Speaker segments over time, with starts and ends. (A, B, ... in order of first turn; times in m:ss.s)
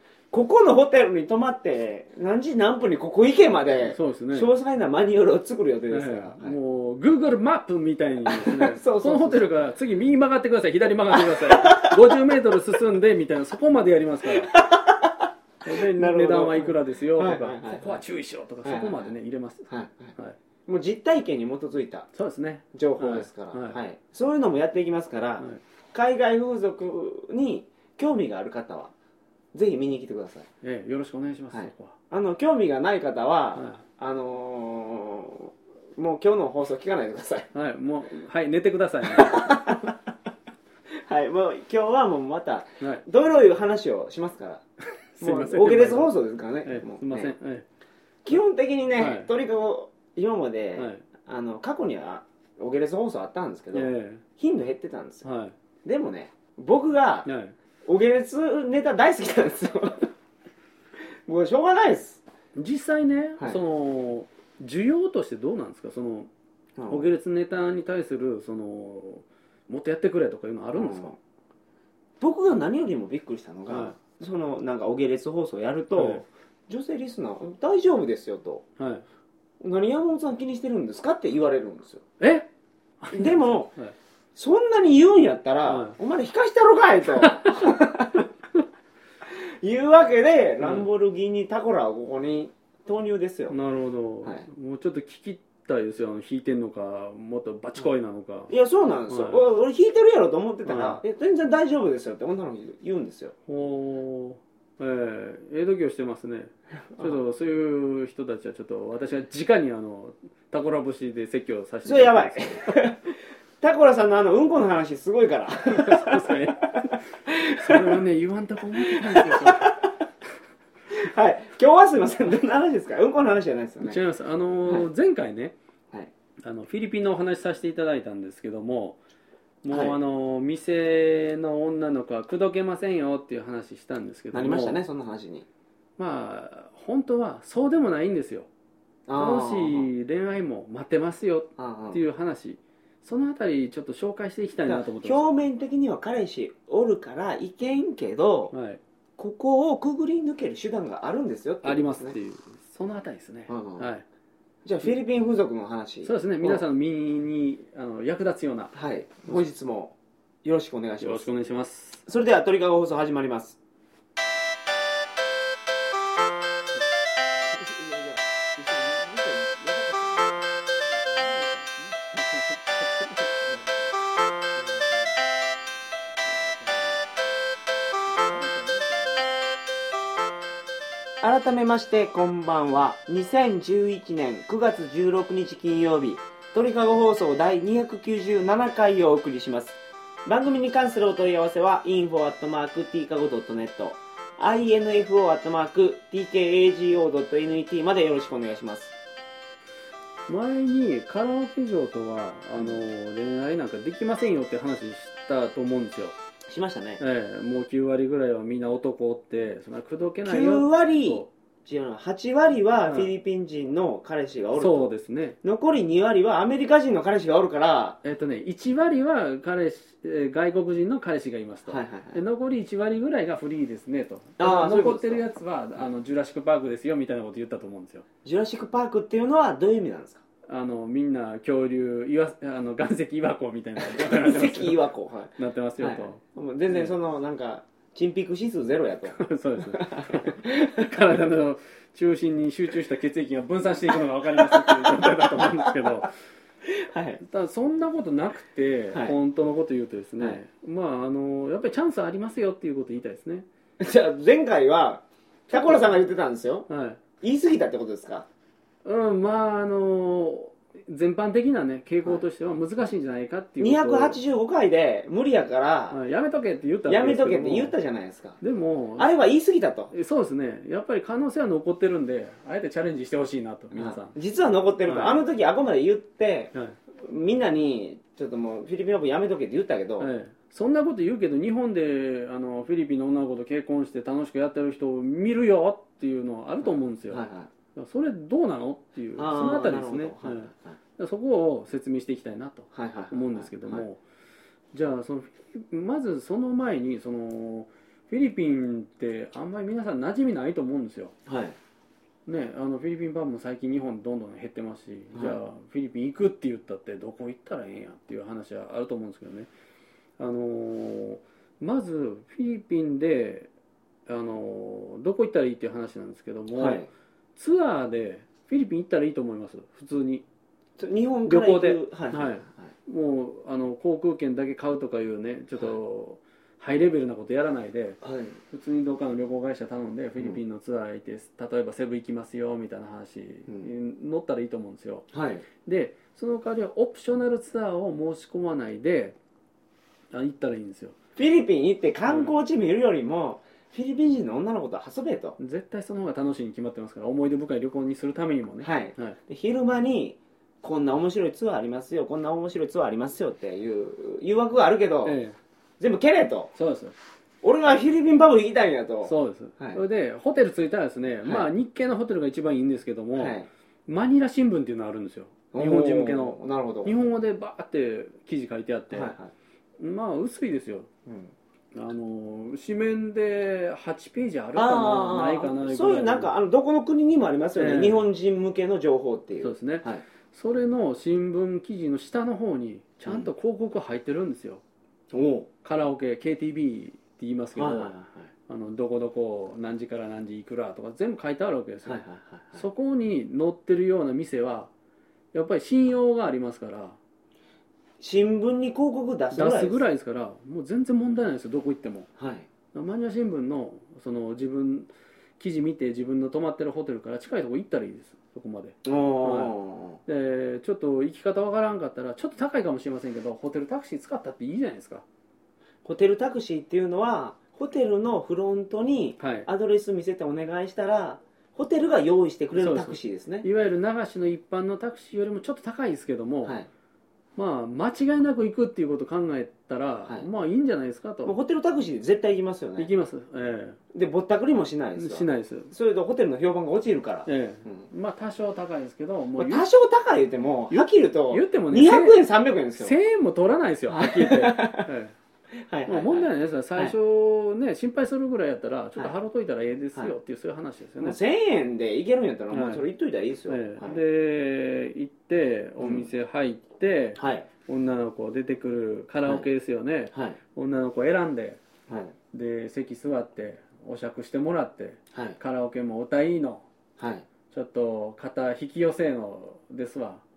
0:00.3-0:06.6 A
0:03.9-0:04.5 B
0:05.9-0:14.5 B
0:08.2-0:09.6 A
0:11.1-0:12.0 A
0:14.5-0:18.0 A
0:15.6-0:20.4 B
0:18.6-0:19.1 A
0:19.7-0:20.2 A
0:20.7-0:22.1 A
0:22.1-0:23.8 B
0:22.7-0:28.9 A
0:29.5-0:30.5 A
0:30.6-0:32.0 B
0:31.5-0:37.5 A
0:33.6-0:33.8 B
0:37.5-0:39.8 B
0:39.1-0:39.9 A
0:41.0-0:44.6 A
0:45.2-0:46.1 B
0:45.2-0:47.3 A
0:46.6-0:47.7 B
0:48.2-0:55.3 A
0:49.0-0:49.3 B
0:50.8-0:51.0 B
0:53.7-0:54.2 B
0:55.2-0:55.6 B
0:55.8-0:57.3 A
0:57.2-0:57.6 B
0:57.9-1:00.1 A
1:01.3-1:02.2 A
1:02.6-1:06.3 B
1:06.8-1:07.1 A
1:06.9-1:11.1 B
1:10.7-1:11.2 A
1:12.2-1:18.6 A
1:13.7-1:14.0 B
1:15.9-1:16.2 B
1:18.8-1:19.0 B
1:19.6-1:22.0 A
1:22.2-1:22.5 B
1:23.0-1:23.9 B
1:23.1-1:23.7 A
1:24.4-1:28.3 A
1:25.6-1:26.0 B
1:27.2-1:27.7 B
1:29.3-1:33.6 A
1:30.6-1:30.9 B
1:33.5-1:38.5 B
1:38.5-1:43.3 A
1:39.1-1:39.4 B
1:40.7-1:41.0 B
1:43.5-1:52.8 B
1:51.8-1:56.4 A
1:55.7-1:57.0 B
1:57.3-1:58.0 A
1:57.6-1:59.6 B
1:58.8-1:59.9 A
2:00.9-2:04.0 A
2:03.8-2:05.6 B
2:06.4-2:09.0 B
2:09.6-2:14.8 B
2:09.7-2:10.0 A
2:14.3-2:15.4 A
2:16.0-2:18.5 B
2:19.1-2:19.9 A
2:19.2-2:25.3 B
2:21.6-2:22.0 A
2:24.7-2:28.5 A
2:28.5-2:28.8 B
2:29.2-2:32.2 A
2:31.6-2:34.0 B
2:33.5-2:33.9 A
2:34.6-2:36.6 A
2:36.0-2:38.8 B
2:38.7-2:41.3 A
2:41.0-2:42.0 B
2:42.1-2:43.6 A
2:47.5-2:50.5 A
2:50.9-2:54.0 B
2:54.6-2:54.8 A
2:56.2-2:57.1 B
2:58.1-2:59.4 B
3:01.2-3:18.9 A
3:20.3-3:26.2 B
3:26.5-3:27.0 A
3:27.0-3:31.3 B
3:30.2-3:34.9 A
3:34.6-3:35.4 B
3:35.4-3:38.0 A
3:38.0-3:48.0 B
3:41.7-3:42.2 A
3:44.4-3:45.2 A
3:48.2-3:50.2 A
3:50.5-3:54.8 B
3:53.8-4:00.9 A
3:55.4-3:56.9 B
3:59.1-4:06.1 B
4:04.5-4:05.8 A
4:06.6-4:07.2 A
4:07.2-4:13.5 B
4:13.8-4:16.7 A
4:15.5-4:15.9 B
4:16.7-4:17.0 B
4:17.2-4:18.2 A
4:18.8-4:24.2 B
4:23.6-4:26.0 A
4:25.9-4:27.8 B
4:26.9-4:28.4 A
4:28.4-4:29.1 B
4:29.0-4:29.9 A
4:29.9-4:34.1 B
4:33.7-4:40.1 A
4:34.9-4:35.2 B
4:40.0-4:54.0 B
4:46.6-4:47.5 A
4:49.2-4:50.8 A
4:52.7-4:53.8 A
4:54.7-5:01.1 B
5:01.2-5:01.6 A
5:02.2-5:09.5 B
5:10.2-5:13.5 B
5:14.1-5:16.8 B
5:16.5-5:16.9 A
5:17.4-5:20.2 B
5:20.8-5:22.7 A
5:21.3-5:35.1 B
5:28.0-5:28.4 A
5:35.1-5:35.5 A
5:35.6-5:39.2 B
5:40.1-5:41.0 B
5:41.2-5:45.4 A
5:42.1-5:42.3 B
5:45.4-5:49.2 B
5:48.6-5:55.2 A
5:55.0-5:55.4 B
5:55.8-5:56.5 A
5:56.6-5:57.0 B
5:57.4-5:59.8 A
5:59.0-6:03.4 B
6:03.1-6:03.5 A
6:03.9-6:09.1 B
6:05.5-6:06.9 A
6:08.9-6:09.3 A
6:09.8-6:10.9 B
6:11.1-6:11.3 A
6:11.7-6:16.3 B
6:14.6-6:20.0 A
6:17.6-6:18.0 B
6:19.4-6:24.6 B
6:25.1-6:25.5 A
6:25.6-6:27.9 B
6:27.6-6:28.3 A
6:28.5-6:32.0 B
6:31.8-6:32.6 A
6:32.6-6:34.7 B
6:35.3-6:37.0 B
6:38.0-6:39.8 A
6:39.3-6:42.1 B
6:42.2-6:42.5 A
6:42.7-6:49.5 B
6:48.8-6:50.0 A
6:50.1-6:55.0 B
6:55.8-7:03.5 A
6:59.2-6:59.5 B
7:02.6-7:06.6 B
7:06.4-7:06.7 A
7:07.4-7:11.4 B
7:11.2-7:12.9 A
7:12.8-7:13.8 B
7:13.9-7:17.9 A
7:15.0-7:15.7 B
7:17.3-7:19.7 B
7:19.4-7:23.0 A
7:20.7-7:22.2 B
7:22.8-7:25.1 B
7:23.9-7:24.9 A
7:25.6-7:26.9 A
7:25.9-7:31.2 B
7:31.0-7:34.0 A
7:32.5-7:32.9 B
7:33.5-7:41.6 B
7:35.8-7:36.1 A
7:37.2-7:37.5 A
7:40.1-7:40.4 A
7:41.9-7:42.1 A
7:42.3-7:46.6 B
7:45.1-7:45.4 A
7:47.0-7:47.2 A
7:47.5-7:50.2 B